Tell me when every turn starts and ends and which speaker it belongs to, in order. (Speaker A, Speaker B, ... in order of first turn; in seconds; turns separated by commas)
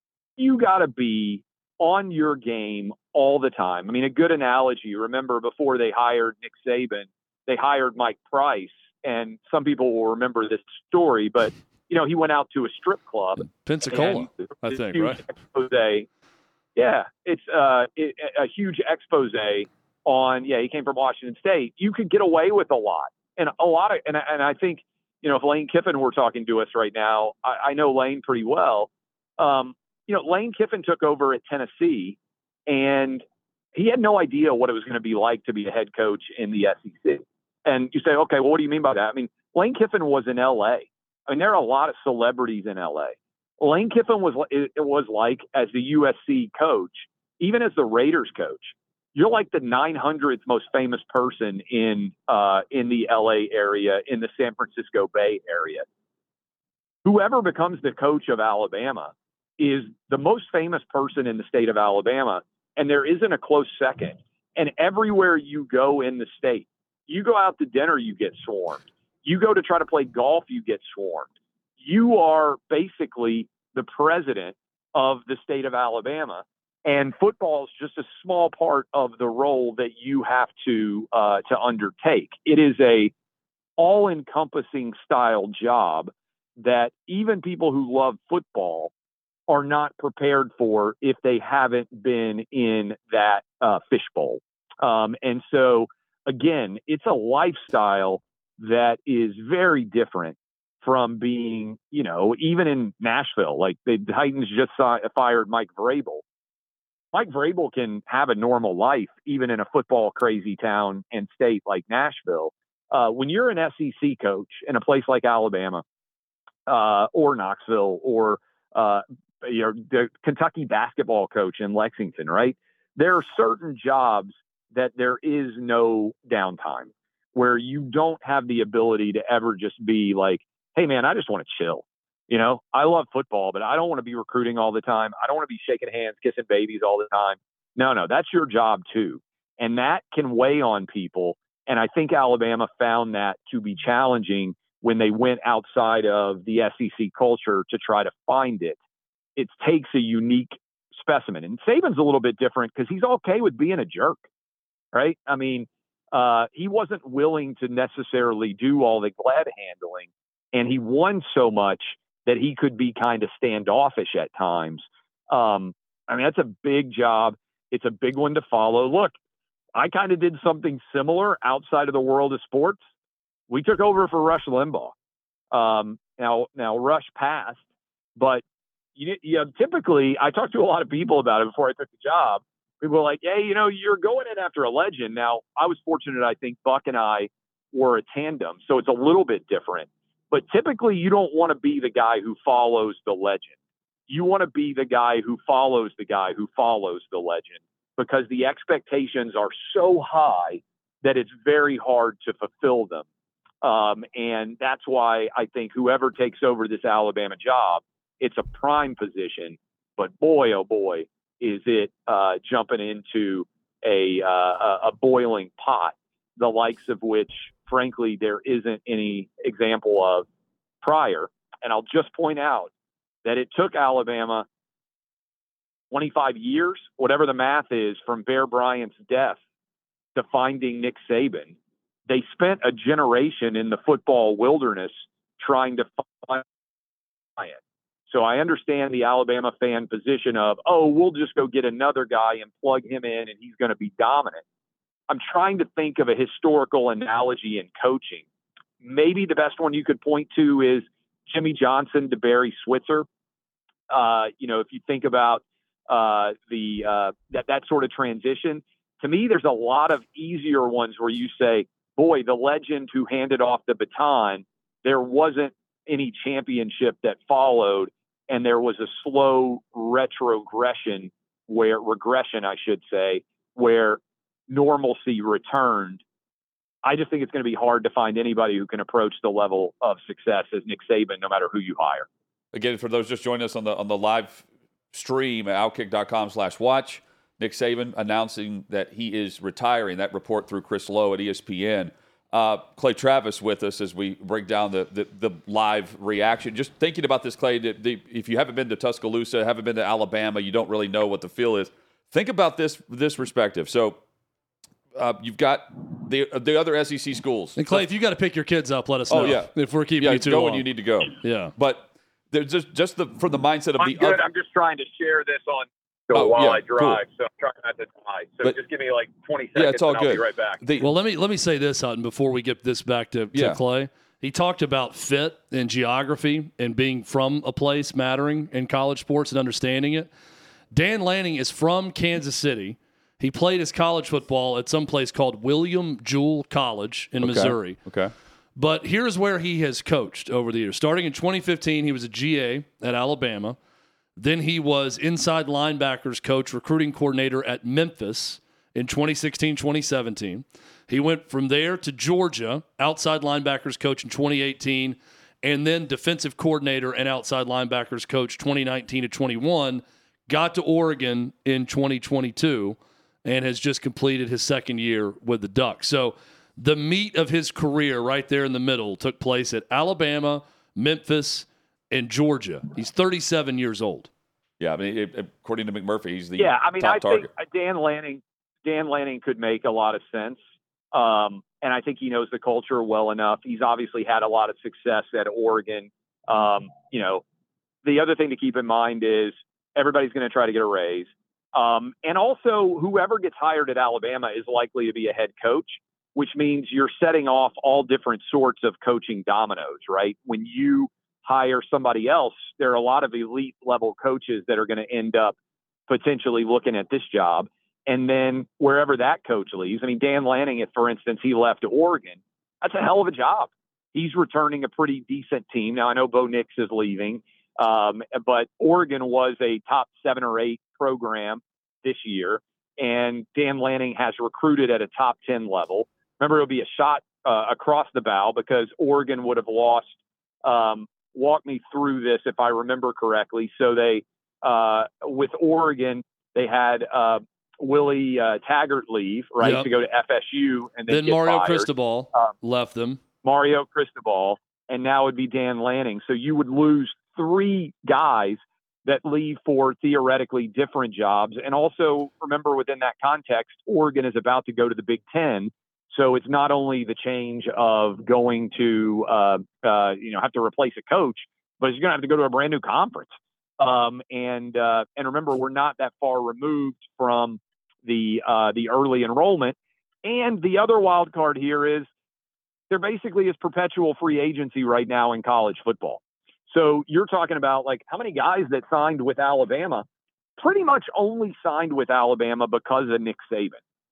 Speaker A: 0.4-16.1, Speaker B: 13.4-15.2, Speaker A: 16.8-33.2, Speaker A: 33.8-55.9, Speaker A: 57.0-71.3, Speaker A: 71.8-83.1, Speaker A: 83.8-88.9, Speaker A: 89.5-106.2, Speaker A: 107.1-115.8, Speaker A: 116.7-148.8, Speaker A: 149.4-154.2, Speaker A: 154.9-169.1, Speaker A: 169.8-172.8, Speaker A: 173.5-174.9, Speaker A: 175.5-177.6, Speaker A: 178.2-178.4, Speaker A: 179.0-193.5, Speaker A: 194.1-203.1, Speaker A: 203.6-220.3, Speaker A: 220.8-222.7, Speaker A: 223.2-224.4, Speaker A: 225.9-229.4, Speaker A: 230.2-231.5, Speaker A: 232.1-236.4, Speaker A: 237.4-244.4, Speaker A: 245.1-248.2, Speaker A: 248.8-253.1, Speaker A: 253.9-276.0, Speaker A: 276.8-282.1, Speaker C: 282.5-304.0, Speaker C: 304.9-307.9, Speaker B: 307.6-310.7, Speaker C: 309.1-314.2, Speaker B: 311.2-311.5, Speaker A: 313.8-320.6, Speaker C: 316.1-317.0, Speaker C: 319.6-320.9, Speaker B: 320.8-330.1, Speaker C: 323.3-323.6, Speaker B: 330.7-337.8, Speaker C: 337.2-338.1, Speaker B: 338.6-343.6, Speaker B: 344.2-374.1, Speaker C: 374.6-377.3, Speaker A: 376.4-380.4, Speaker A: 380.9-387.2, Speaker A: 387.8-405.4, Speaker A: 405.9-429.9, Speaker A: 430.4-442.3, Speaker B: 439.4-439.7, Speaker B: 440.9-443.0, Speaker A: 443.2-471.9, Speaker A: 472.7-479.9, Speaker A: 480.4-483.6